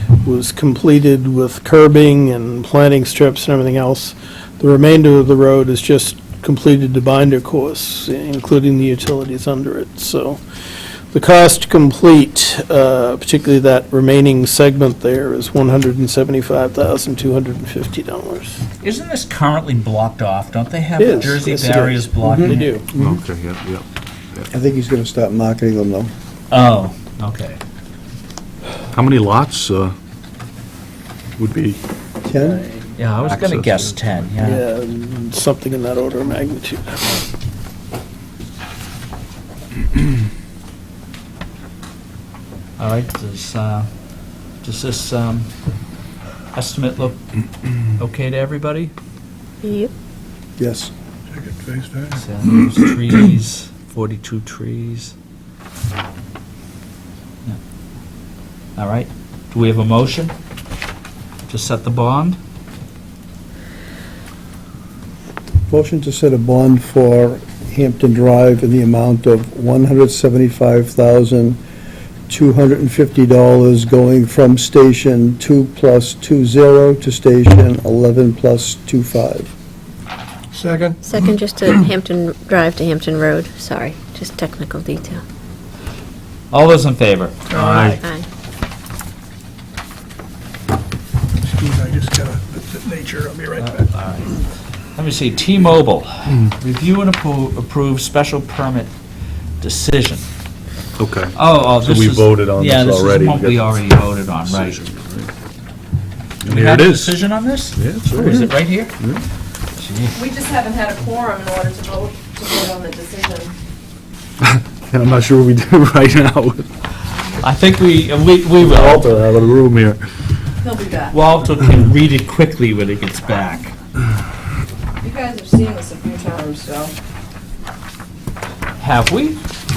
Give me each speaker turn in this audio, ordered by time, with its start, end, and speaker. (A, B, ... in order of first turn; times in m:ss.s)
0:00.2-0:10.4 A
0:11.1-0:18.6 A
0:18.8-0:22.7 B
0:21.0-0:22.9 A
0:22.2-0:23.2 C
0:22.9-0:24.5 D
0:24.5-0:26.1 C
0:26.5-0:27.6 B
0:28.9-0:30.0 D
0:31.4-0:31.8 D
0:32.3-0:32.6 C
0:32.3-0:32.9 A
0:33.0-0:34.6 B
0:33.2-0:34.0 D
0:34.4-0:37.3 A
0:42.8-0:43.9 B
0:44.6-0:45.5 B
0:46.5-0:47.2 B
0:47.9-0:48.9 B
0:49.6-0:49.9 E
0:50.6-0:50.9 C
0:51.4-0:52.1 F
0:52.2-0:55.1 B
0:58.8-1:00.3 B
1:01.5-1:02.4 B
1:05.7-1:11.6 C
1:12.3-1:19.5 C
1:20.6-1:20.9 F
1:21.0-1:25.2 E
1:26.5-1:28.0 B
1:27.6-1:28.0 D
1:28.0-1:28.2 E
1:31.5-1:33.8 F
1:33.6-1:38.9 B
1:39.6-1:40.3 B
1:41.0-1:43.8 D
1:41.4-1:44.8 B
1:44.4-1:45.3 D
1:46.4-1:47.2 D
1:46.4-1:48.9 B
1:47.8-1:49.2 D
1:49.8-1:50.2 B
1:50.1-1:53.5 G
1:54.4-1:56.7 D
1:57.4-1:59.2 B
1:58.6-2:00.0 D
2:00.6-2:01.2 G
2:01.1-2:03.7 B
2:05.0-2:06.9 G
2:08.8-2:09.4 B